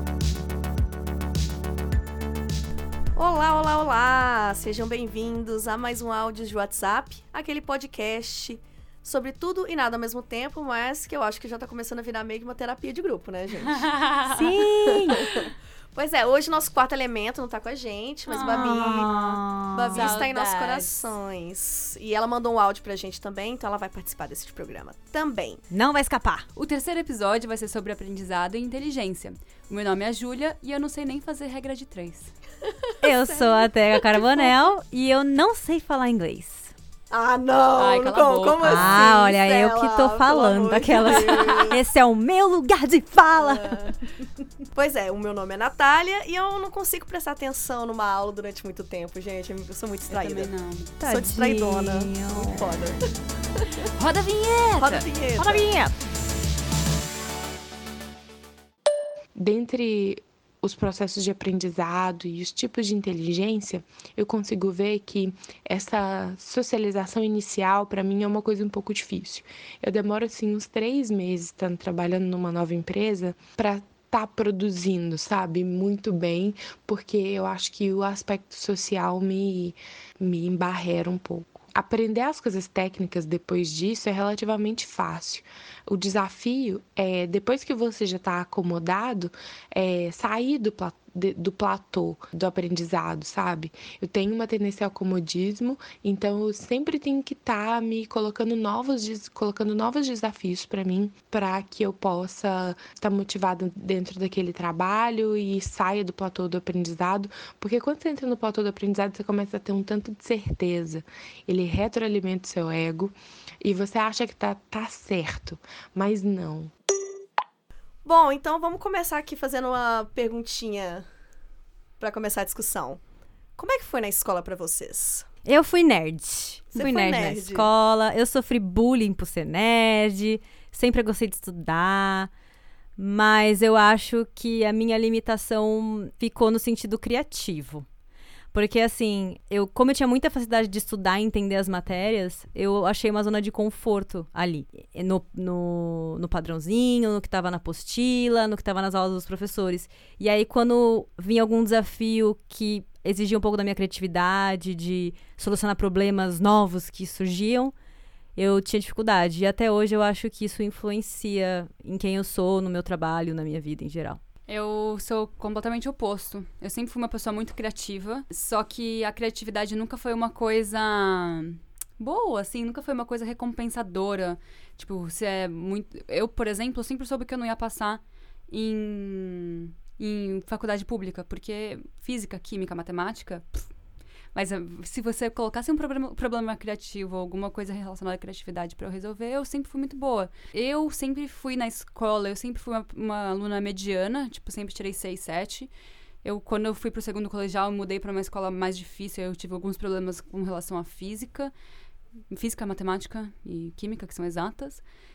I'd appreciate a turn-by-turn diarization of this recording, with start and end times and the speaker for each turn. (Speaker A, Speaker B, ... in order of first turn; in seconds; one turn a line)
Speaker A: 3.1-13.8
Speaker B: 13.7-14.4
Speaker C: 14.3-15.2
Speaker A: 14.9-19.1
Speaker B: 18.3-19.3
Speaker C: 18.4-20.2
Speaker A: 19.7-25.6
Speaker B: 19.9-21.1
Speaker C: 25.7-26.4
Speaker B: 26.5-32.3
Speaker C: 33.0-36.7
Speaker A: 37.1-41.8
Speaker B: 37.8-39.1
Speaker C: 38.6-43.8
Speaker B: 41.1-41.7
Speaker A: 43.3-44.0
Speaker A: 44.7-53.1
Speaker B: 50.1-50.9
Speaker C: 51.0-52.7
Speaker B: 54.0-55.9
Speaker A: 54.8-55.7
Speaker D: 59.3-116.7
Speaker A: 118.0-121.0
Speaker A: 122.0-123.0
Speaker A: 123.6-125.3
Speaker C: 125.4-132.3
Speaker A: 126.7-127.7
Speaker C: 133.0-137.8
Speaker C: 138.5-157.7
Speaker C: 158.3-164.2
Speaker B: 164.5-183.7
Speaker B: 184.3-195.7
Speaker B: 196.2-201.5
Speaker B: 202.3-204.8